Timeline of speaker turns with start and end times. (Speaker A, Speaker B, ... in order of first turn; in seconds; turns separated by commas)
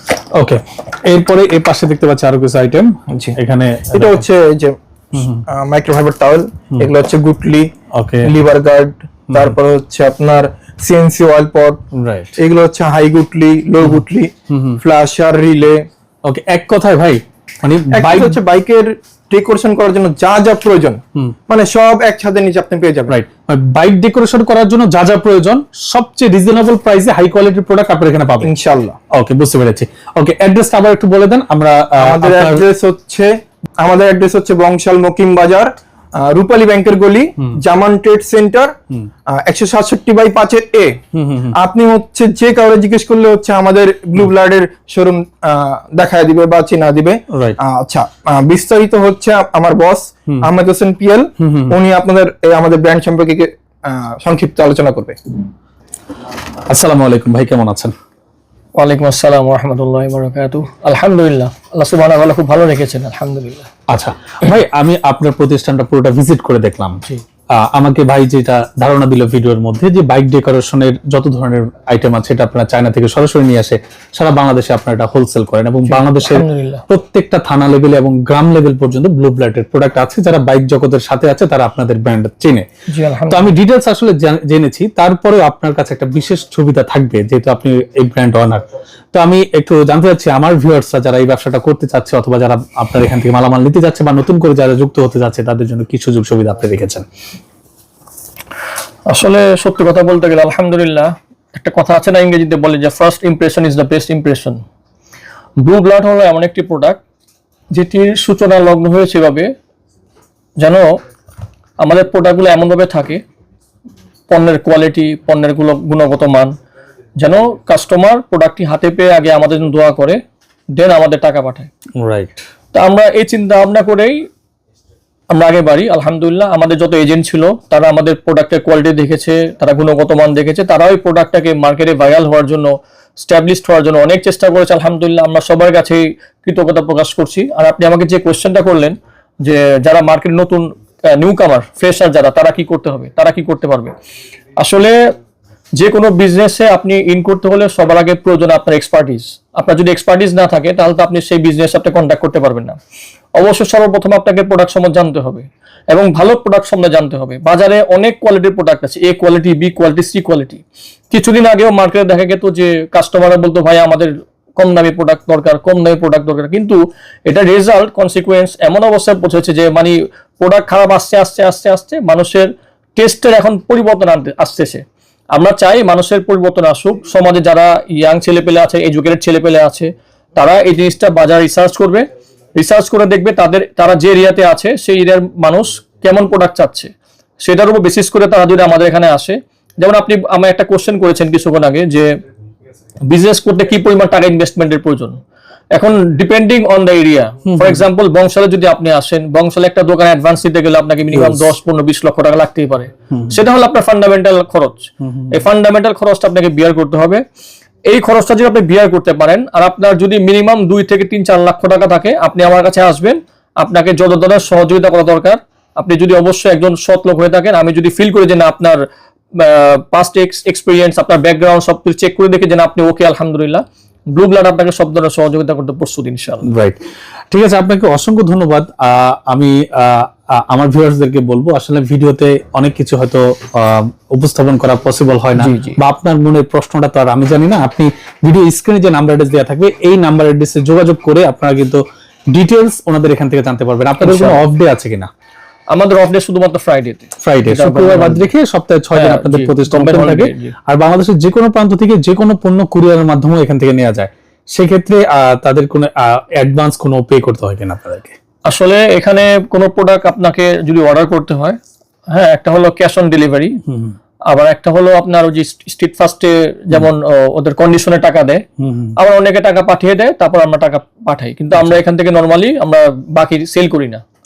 Speaker A: 0.3-4.2, Speaker B: 3.1-3.4, Speaker B: 3.9-4.8, Speaker A: 5.1-5.4, Speaker B: 5.5-7.7, Speaker A: 7.9-8.3, Speaker B: 8.2-11.8, Speaker A: 11.9-12.4, Speaker B: 12.4-15.8, Speaker A: 13.8-14.8, Speaker A: 16.2-18.4, Speaker B: 17.9-23.1, Speaker A: 23.1-28.5, Speaker B: 28.4-29.0, Speaker A: 29.1-32.6, Speaker B: 32.0-38.7, Speaker B: 39.3-41.0, Speaker A: 41.1-41.5, Speaker B: 41.5-55.2, Speaker A: 47.3-47.6, Speaker A: 51.4-51.7, Speaker A: 56.7-57.9, Speaker C: 58.8-63.7, Speaker A: 63.9-67.0, Speaker A: 67.5-82.7, Speaker C: 75.9-76.8, Speaker C: 82.9-83.5, Speaker A: 83.3-97.0, Speaker C: 99.1-104.6, Speaker C: 105.6-107.0, Speaker C: 107.7-109.5, Speaker C: 110.6-111.0, Speaker C: 111.8-113.2, Speaker C: 114.3-116.5, Speaker C: 117.2-120.2, Speaker C: 120.7-121.7, Speaker A: 122.0-122.4, Speaker C: 122.7-124.3, Speaker C: 125.3-143.9, Speaker C: 144.6-145.1, Speaker C: 145.8-152.8, Speaker C: 153.4-174.8, Speaker C: 175.3-192.2, Speaker C: 193.1-195.2, Speaker C: 195.7-207.2, Speaker A: 197.5-197.8, Speaker A: 201.1-201.5, Speaker A: 203.1-203.4, Speaker A: 205.0-205.3, Speaker C: 207.9-218.8, Speaker C: 219.4-226.5, Speaker A: 226.4-226.8, Speaker A: 227.3-245.1, Speaker C: 235.4-235.8, Speaker C: 244.0-244.4, Speaker C: 245.7-248.3, Speaker A: 247.2-258.2, Speaker C: 248.9-250.5, Speaker C: 258.5-261.6, Speaker C: 262.1-263.6, Speaker A: 263.7-263.9, Speaker C: 264.3-268.4, Speaker A: 268.6-268.9, Speaker C: 269.0-274.0, Speaker A: 271.5-271.8